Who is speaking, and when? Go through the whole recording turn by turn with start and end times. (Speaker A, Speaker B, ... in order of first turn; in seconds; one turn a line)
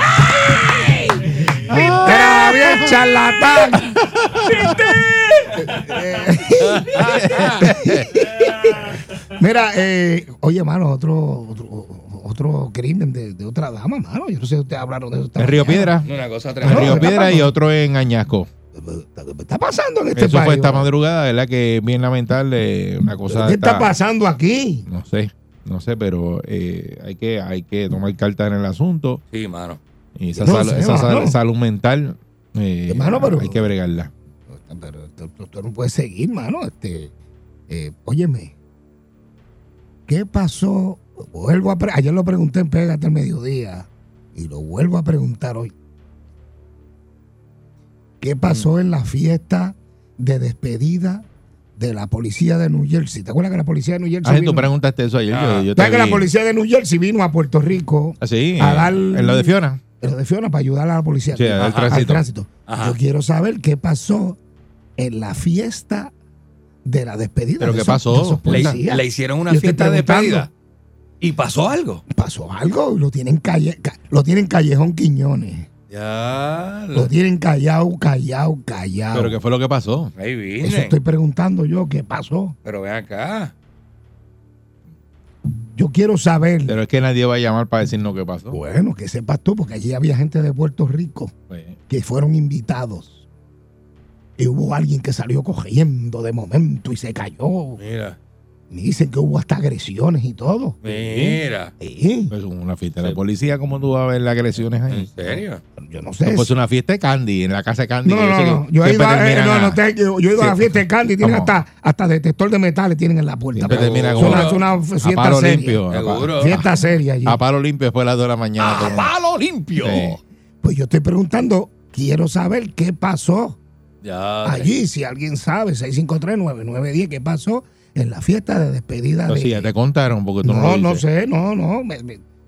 Speaker A: 0.3-15.9
Speaker B: 1.7-3.0
Speaker B: 4.4-4.8
Speaker C: 6.7-7.7
Speaker B: 7.2-7.9
Speaker B: 15.4-16.1
Speaker C: 16.0-17.1
Speaker B: 16.6-18.5
Speaker A: 16.6-17.5
Speaker A: 18.7-20.9
Speaker B: 20.2-23.9
Speaker A: 23.3-24.9
Speaker B: 24.9-29.2
Speaker C: 29.3-29.8
Speaker B: 30.2-34.1
Speaker A: 30.4-31.4
Speaker A: 32.9-33.7
Speaker A: 34.5-37.1
Speaker A: 37.7-38.5
Speaker A: 40.1-45.7
Speaker A: 48.2-54.7
Speaker B: 54.2-56.3
Speaker C: 55.3-55.7
Speaker A: 55.8-64.4
Speaker B: 58.2-59.8
Speaker B: 61.4-62.2
Speaker C: 61.6-61.9
Speaker C: 62.7-63.0
Speaker A: 65.0-66.1
Speaker A: 66.8-70.5
Speaker B: 67.6-68.8
Speaker C: 68.5-70.5
Speaker C: 71.2-72.0
Speaker A: 72.1-75.7
Speaker C: 75.9-77.1
Speaker A: 76.9-79.4
Speaker B: 79.1-80.1
Speaker C: 80.2-81.0
Speaker A: 80.6-82.6
Speaker C: 82.7-83.5
Speaker A: 85.7-86.8
Speaker B: 86.7-88.6
Speaker A: 88.5-91.3
Speaker B: 91.5-91.8
Speaker A: 91.9-93.3
Speaker A: 94.4-97.8
Speaker C: 97.8-98.2
Speaker A: 98.7-100.8
Speaker C: 100.8-101.7
Speaker B: 101.0-101.4
Speaker A: 101.8-102.3
Speaker B: 102.3-105.1
Speaker C: 104.9-105.6
Speaker A: 105.8-106.5
Speaker B: 106.2-109.8
Speaker A: 108.0-115.8
Speaker B: 110.4-111.5
Speaker B: 113.6-116.7
Speaker C: 113.7-114.6
Speaker C: 115.9-116.6
Speaker A: 116.4-117.4
Speaker B: 117.3-119.1
Speaker C: 118.6-120.1
Speaker B: 119.8-120.2
Speaker A: 120.6-123.6
Speaker C: 124.0-124.7
Speaker A: 124.4-129.7
Speaker B: 129.3-131.0
Speaker A: 130.4-132.2